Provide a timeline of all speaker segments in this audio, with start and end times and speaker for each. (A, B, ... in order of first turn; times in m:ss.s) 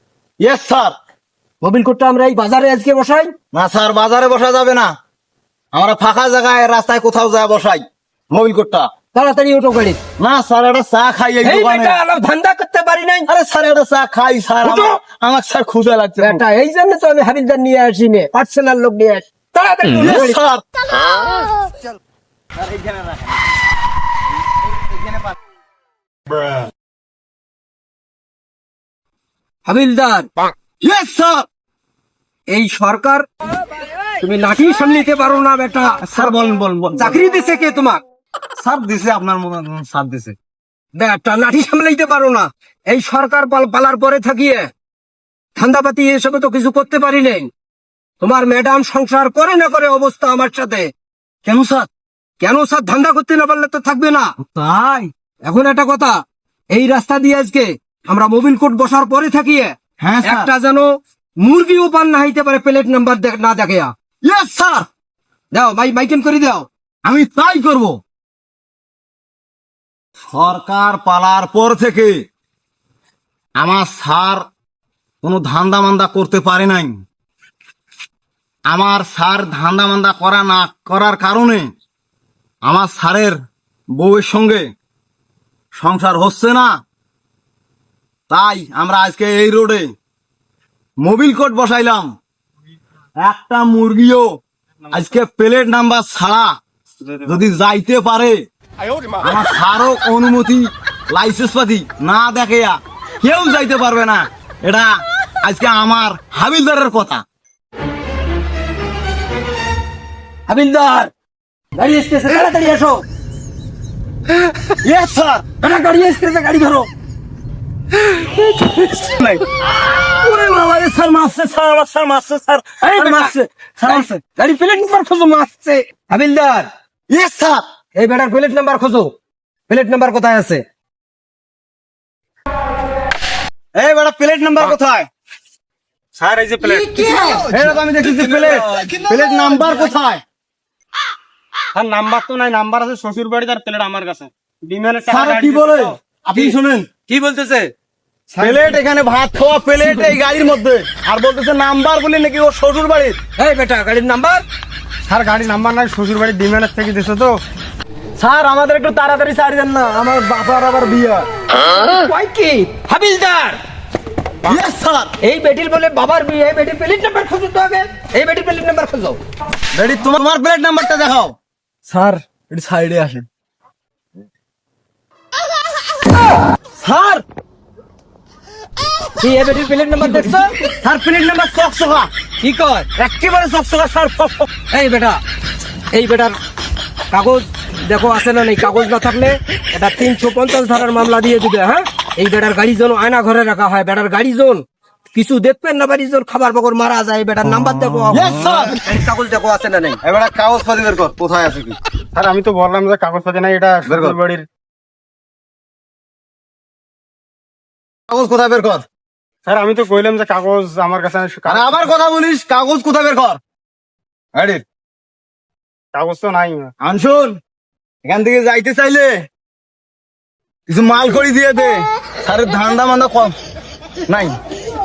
0:00.4-0:00.9 A
0:01.6-0:03.3 B
0:03.5-0:04.9 A
0:05.7-0:08.9 A
0:09.1-0:10.0 B
0:10.2-0:12.0 A
0:11.4-0:13.3 B
0:13.3-0:16.4 A
0:14.6-0:15.0 B
0:16.2-0:20.4 B
0:20.0-0:20.6 A
0:22.5-0:23.5 A
0:24.7-0:25.3 A
0:29.6-0:30.3 B
0:30.8-0:31.5 A
0:32.5-0:33.2 B
0:34.2-0:36.2 B
0:36.0-0:37.2 A
0:37.0-0:38.0 B
0:38.6-0:40.4 A
0:41.0-0:44.7 B
0:45.6-0:47.5 B
0:48.2-0:50.9 B
0:51.4-0:51.9 A
0:52.4-0:54.3 B
0:54.4-0:55.1 A
0:55.4-0:56.2 B
0:56.7-1:00.9 B
1:00.0-1:00.5 A
1:01.4-1:03.9 B
1:04.2-1:04.9 A
1:05.5-1:06.7 B
1:07.0-1:08.0 A
1:10.3-1:12.2 A
1:13.6-1:14.4 A
1:15.2-1:17.0 A
1:18.7-1:21.7 A
1:22.6-1:23.4 A
1:23.9-1:24.6 A
1:25.7-1:26.8 A
1:28.3-1:29.9 A
1:31.0-1:32.1 A
1:33.2-1:34.4 A
1:34.9-1:36.5 A
1:37.2-1:38.4 A
1:39.2-1:47.2 A
1:50.5-1:51.1 B
1:51.7-1:53.0 B
1:54.8-1:55.4 A
1:55.6-1:56.9 B
1:58.1-1:59.1 B
1:59.1-1:59.4 A
2:00.0-2:04.2 A
2:02.8-2:06.7 B
2:07.1-2:07.6 A
2:08.0-2:09.1 B
2:09.7-2:10.6 B
2:13.7-2:15.1 A
2:16.1-2:17.1 C
2:16.6-2:17.5 B
2:17.5-2:20.2 A
2:21.7-2:26.0 C
2:25.1-2:26.9 A
2:27.1-2:27.7 B
2:28.3-2:28.7 C
2:28.4-2:33.2 A
2:33.4-2:34.4 B
2:35.0-2:37.4 C
2:38.2-2:41.2 A
2:41.5-2:43.6 B
2:44.4-2:45.1 A
2:45.2-2:49.2 B
2:49.7-2:51.3 A
2:51.9-2:53.2 B
2:56.7-2:57.2 A
2:59.2-3:00.5 B
3:00.8-3:02.1 A
3:02.4-3:02.9 B
3:03.0-3:04.5 A
3:04.7-3:05.2 B
3:05.9-3:06.4 B
3:07.1-3:14.6 B
3:15.1-3:20.0 B
3:18.1-3:18.8 A
3:20.0-3:21.8 A
3:22.1-3:24.4 C
3:23.8-3:24.2 A
3:28.1-3:28.8 A
3:29.4-3:31.9 C
3:31.4-3:33.4 A
3:34.3-3:34.6 A
3:35.9-3:36.7 C
3:36.8-3:37.4 A
3:38.0-3:39.2 A
3:40.7-3:43.3 A
3:44.1-3:44.4 A